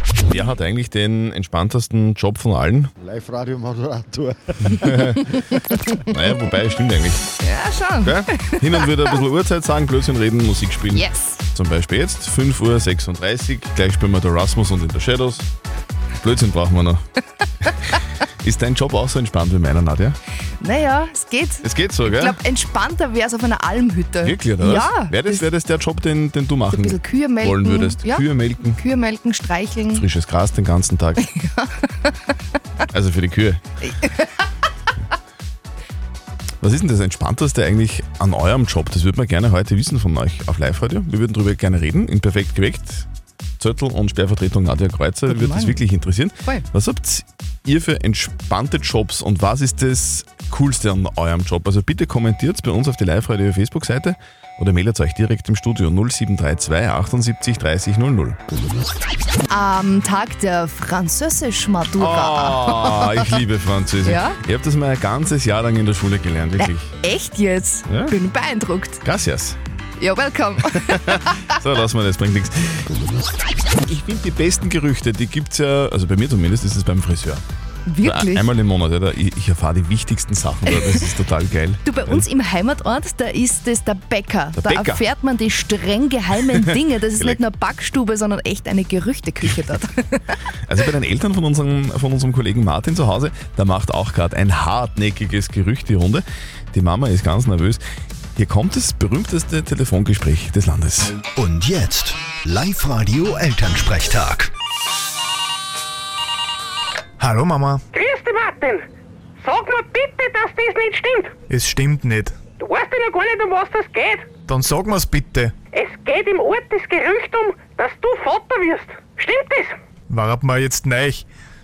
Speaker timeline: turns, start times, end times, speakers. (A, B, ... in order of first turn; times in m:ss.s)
0:00.3-0:02.9 A
0:03.0-0:05.1 B
0:04.6-0:05.6 A
0:06.1-0:07.2 A
0:07.4-0:08.9 C
0:08.0-0:15.5 A
0:10.9-0:11.4 C
0:16.2-0:17.0 A
0:18.4-0:20.2 A
0:20.6-0:25.5 C
0:21.6-0:22.4 A
0:24.2-0:28.8 A
0:26.7-0:30.0 C
0:29.9-0:31.3 A
0:31.2-0:32.1 C
0:32.9-0:33.6 A
0:34.0-0:34.3 C
0:36.6-0:43.1 A
0:43.6-0:58.4 A
0:45.3-0:45.8 C
0:59.5-1:03.3 C
1:02.0-1:06.9 A
1:04.0-1:04.4 C
1:06.6-1:09.0 C
1:07.9-1:08.2 A
1:09.0-1:09.6 A
1:10.0-1:11.6 C
1:10.8-1:12.9 A
1:13.8-1:17.4 A
1:17.9-1:18.5 C
1:18.0-1:22.3 A
1:20.7-1:21.1 C
1:21.8-1:30.4 C
1:24.6-1:25.0 A
1:27.2-1:27.4 A
1:30.7-1:37.8 A
1:38.4-1:41.2 A
1:41.4-1:44.5 D
1:47.2-1:47.8 E
1:47.9-1:48.9 F
1:49.4-1:51.4 F
1:51.5-1:52.3 E
1:52.6-1:54.3 F
1:54.5-1:55.5 E
1:55.7-1:59.8 F
2:00.1-2:01.2 E